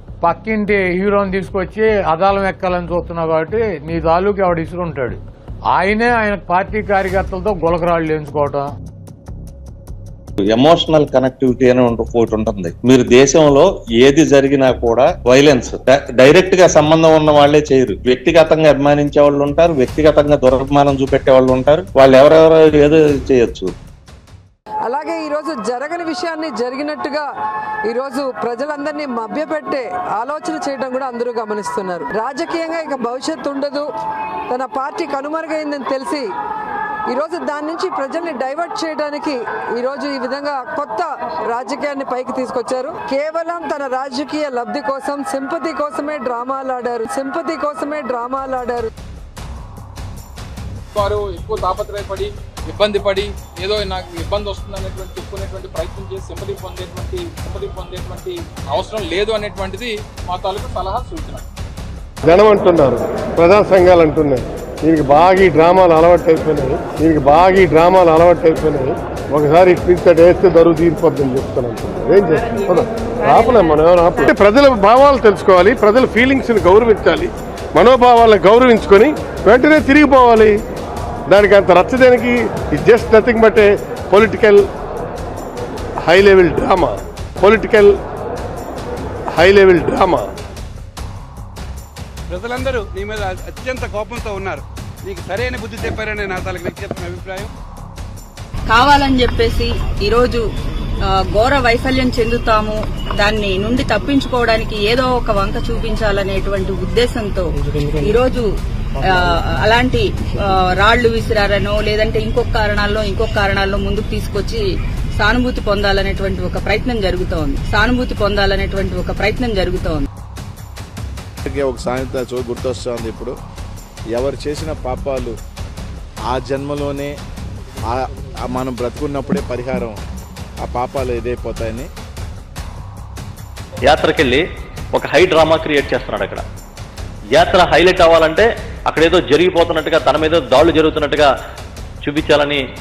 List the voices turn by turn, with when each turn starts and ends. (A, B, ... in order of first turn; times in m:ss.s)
0:00.2-0:08.7 A
0:10.5-0:23.7 B
0:24.8-0:27.3 C
0:27.9-0:33.9 C
0:34.5-0:36.3 C
0:37.1-0:48.9 C
0:50.9-1:01.4 D
1:02.2-1:20.5 E
1:21.3-1:24.6 E
1:26.0-1:27.9 E
1:29.4-1:30.2 E
1:32.3-1:37.5 F
1:38.7-1:40.4 G
1:41.0-1:48.5 G
1:49.0-1:54.6 G
1:55.2-2:00.1 G
2:01.4-2:03.3 H
2:04.1-2:05.3 H
2:06.3-2:07.1 H
2:07.9-2:10.0 H
2:10.6-2:11.9 H
2:13.8-2:14.4 I
2:14.9-2:16.4 I
2:17.3-2:21.3 I
2:22.0-2:22.6 I